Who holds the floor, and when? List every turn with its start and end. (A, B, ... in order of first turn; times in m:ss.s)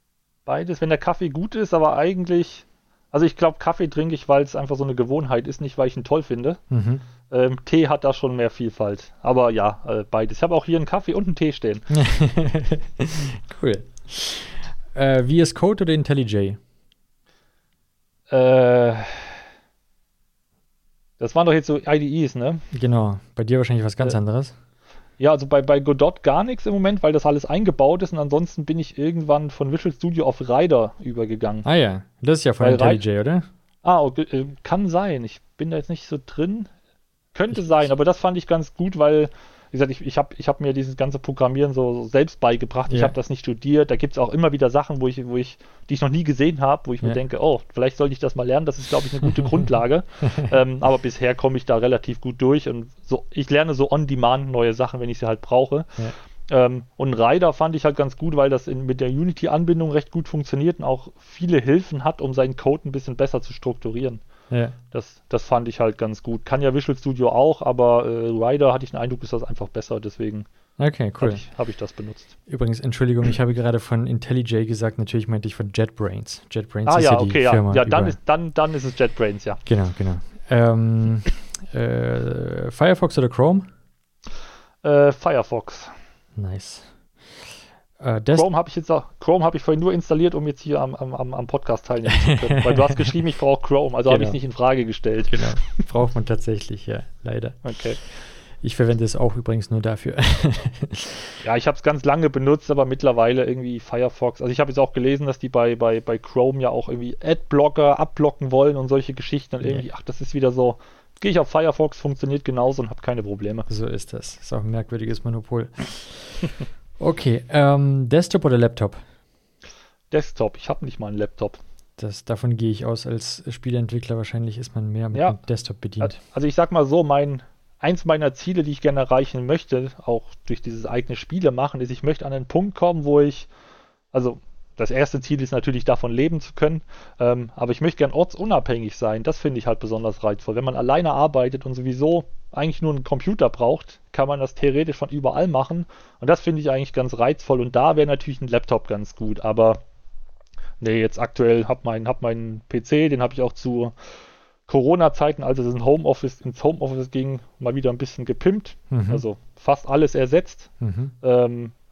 0:00.4-0:06.6 A
0:06.7-0:07.0 B
0:07.3-0:11.8 A
0:11.9-0:16.6 B
0:18.3-0:19.4 A
0:21.2-0:22.6 A
0:22.7-0:24.5 B
0:25.2-0:31.6 A
0:31.6-0:33.5 B
0:32.6-0:33.0 A
0:33.8-0:36.7 A
0:37.3-0:55.9 A
0:42.9-0:43.1 B
0:56.5-1:04.2 A
1:04.5-1:04.8 B
1:04.9-1:10.5 A
1:10.8-1:11.4 B
1:11.2-1:12.3 A
1:12.5-1:18.2 B
1:16.8-1:19.6 A
1:19.6-1:23.7 B
1:24.8-1:25.9 A
1:26.4-1:27.5 B
1:28.0-1:28.5 B
1:28.3-1:35.6 A
1:32.1-1:33.0 B
1:34.1-1:34.4 B
1:35.3-1:41.3 B
1:37.6-1:38.0 A
1:41.4-1:53.7 A
1:53.7-1:59.0 B
2:00.1-2:01.6 A
2:02.0-2:06.2 B
2:05.1-2:05.4 A
2:06.0-2:13.5 A
2:14.1-2:29.8 A
2:30.8-2:34.0 A
2:34.7-2:41.7 A
2:38.9-2:39.2 B
2:40.8-2:41.1 B